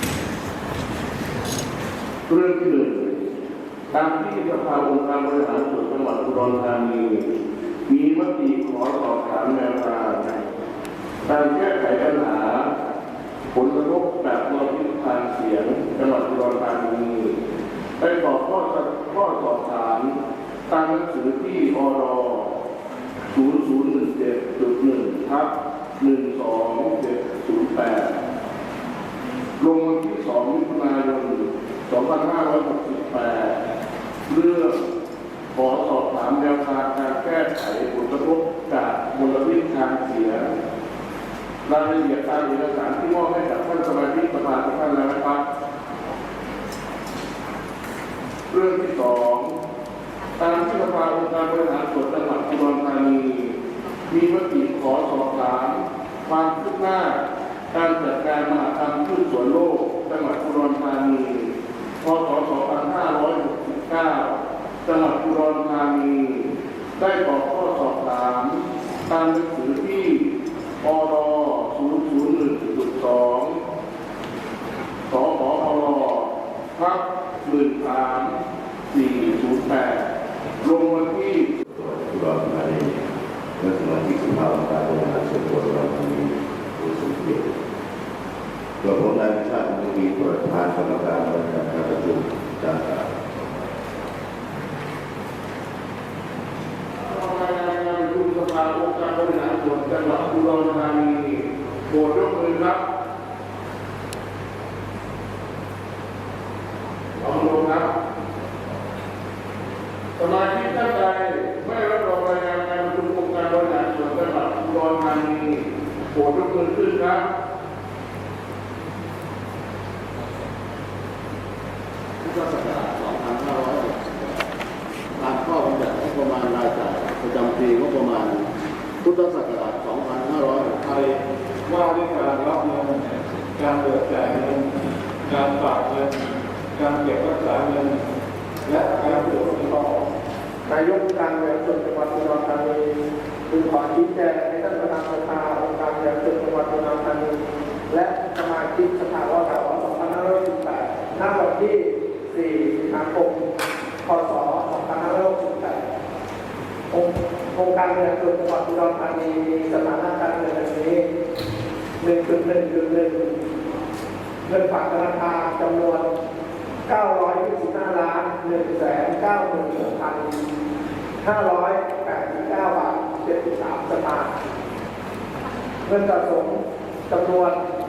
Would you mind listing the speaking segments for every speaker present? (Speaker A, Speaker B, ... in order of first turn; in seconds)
Speaker A: 2.3-3.3, 3.9-7.3, 7.9-10.5, 11.3-12.7, 13.5-17.4, 18.0-20.1, 20.7-22.5, 23.3-28.1, 29.6-33.6, 34.3-34.8, 35.5-40.5, 41.6-45.4, 48.5-49.5, 50.4-53.5, 54.1-57.2, 57.7-61.5, 62.0-70.3, 70.8-73.6, 75.1-78.3, 78.9-80.1, 80.6-81.5, 97.0-102.8, 107.2-107.9, 110.2-117.2
Speaker B: 81.7-87.5, 88.8-93.3
Speaker C: 122.2-124.0, 125.2-128.3, 129.0-130.7
Speaker D: 125.5-126.1, 127.2-127.6, 130.5-136.1, 136.7-138.0, 138.7-139.7
Speaker E: 138.8-140.1, 140.7-147.3, 147.9-153.4, 154.0-155.8, 156.9-161.0, 162.0-163.4, 164.4-166.1, 166.9-170.3, 171.2-174.3, 175.8-177.6